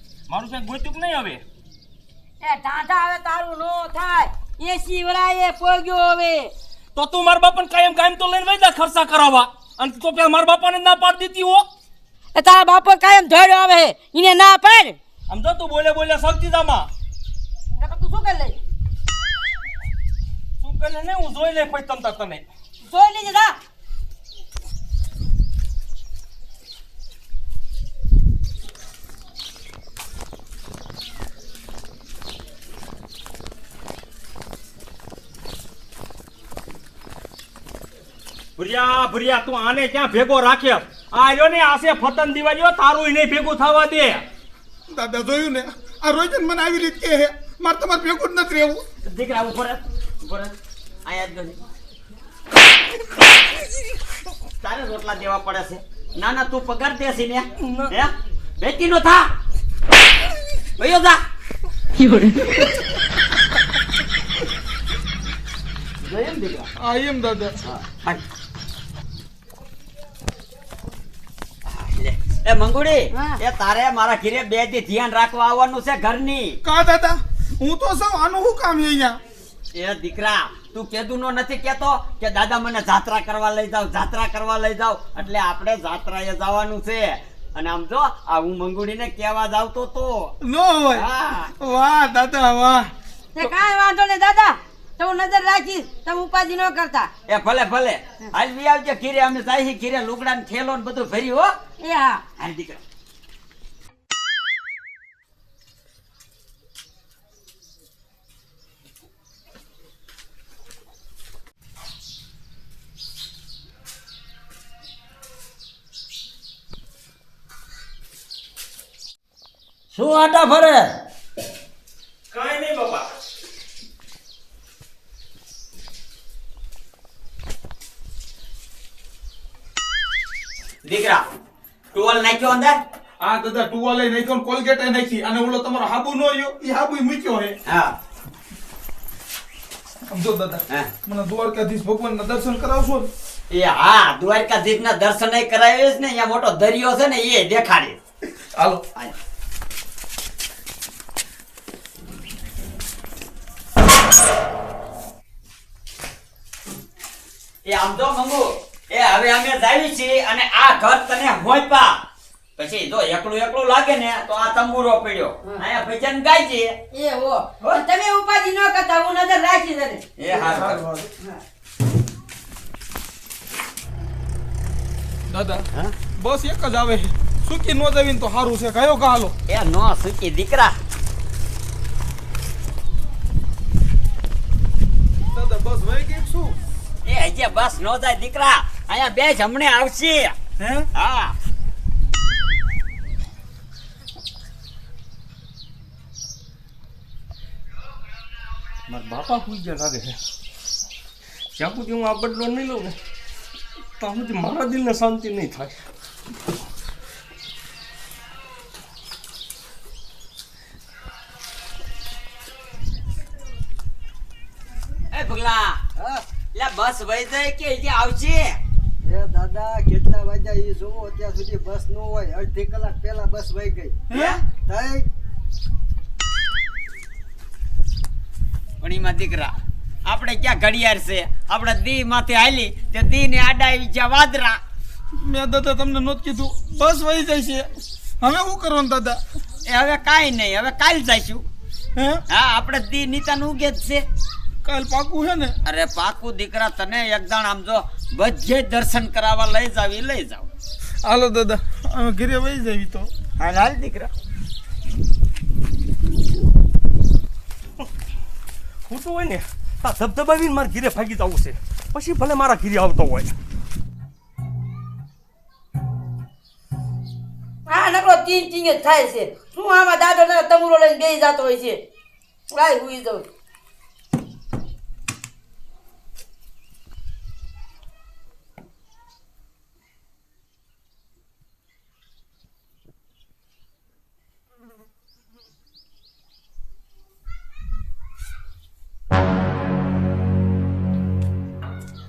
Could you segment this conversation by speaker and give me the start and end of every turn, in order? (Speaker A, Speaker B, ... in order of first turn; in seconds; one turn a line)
Speaker A: 0.3-1.4
Speaker B: 2.4-6.5
Speaker A: 7.0-11.7
Speaker B: 12.3-15.0
Speaker A: 15.3-16.9
Speaker B: 17.8-18.6
Speaker A: 20.6-22.4
Speaker B: 22.8-23.6
Speaker A: 38.6-44.3
Speaker C: 44.9-48.8
Speaker D: 49.0-50.5
Speaker D: 51.1-51.6
Speaker D: 54.6-59.3
Speaker A: 57.6-57.9
Speaker D: 60.8-61.2
Speaker B: 62.0-62.5
Speaker D: 66.0-66.7
Speaker C: 66.8-67.6
Speaker D: 67.7-68.2
Speaker D: 71.7-76.6
Speaker B: 73.1-73.4
Speaker C: 76.6-79.2
Speaker D: 79.7-90.3
Speaker C: 90.4-91.0
Speaker D: 90.9-91.5
Speaker C: 91.6-92.9
Speaker B: 93.3-97.1
Speaker D: 97.3-101.5
Speaker B: 101.8-102.2
Speaker D: 102.4-102.8
Speaker D: 119.9-120.9
Speaker A: 122.3-123.1
Speaker D: 130.8-131.2
Speaker D: 131.9-132.8
Speaker C: 133.2-137.6
Speaker D: 137.7-137.9
Speaker C: 140.1-143.1
Speaker D: 143.5-148.0
Speaker C: 148.5-148.8
Speaker D: 157.7-162.0
Speaker D: 162.6-166.8
Speaker B: 166.9-170.0
Speaker D: 170.2-170.9
Speaker C: 170.3-171.1
Speaker C: 175.3-179.3
Speaker D: 179.5-180.8
Speaker C: 185.3-186.6
Speaker D: 187.1-190.4
Speaker C: 190.6-190.9
Speaker D: 190.9-191.4
Speaker A: 198.9-200.2
Speaker A: 201.6-203.0
Speaker A: 204.0-205.8
Speaker D: 215.1-215.8
Speaker E: 216.0-216.2
Speaker D: 216.5-218.6
Speaker E: 219.0-224.0
Speaker D: 224.1-224.4
Speaker E: 224.6-225.1
Speaker D: 228.8-229.6
Speaker D: 230.1-234.6
Speaker C: 235.2-237.7
Speaker C: 238.2-239.2
Speaker D: 239.7-241.4
Speaker C: 242.0-242.2
Speaker D: 242.3-244.1
Speaker C: 244.7-245.6
Speaker D: 245.7-250.5
Speaker C: 251.0-253.1
Speaker D: 253.4-254.1
Speaker A: 258.9-263.3
Speaker B: 267.7-271.8
Speaker B: 272.5-273.3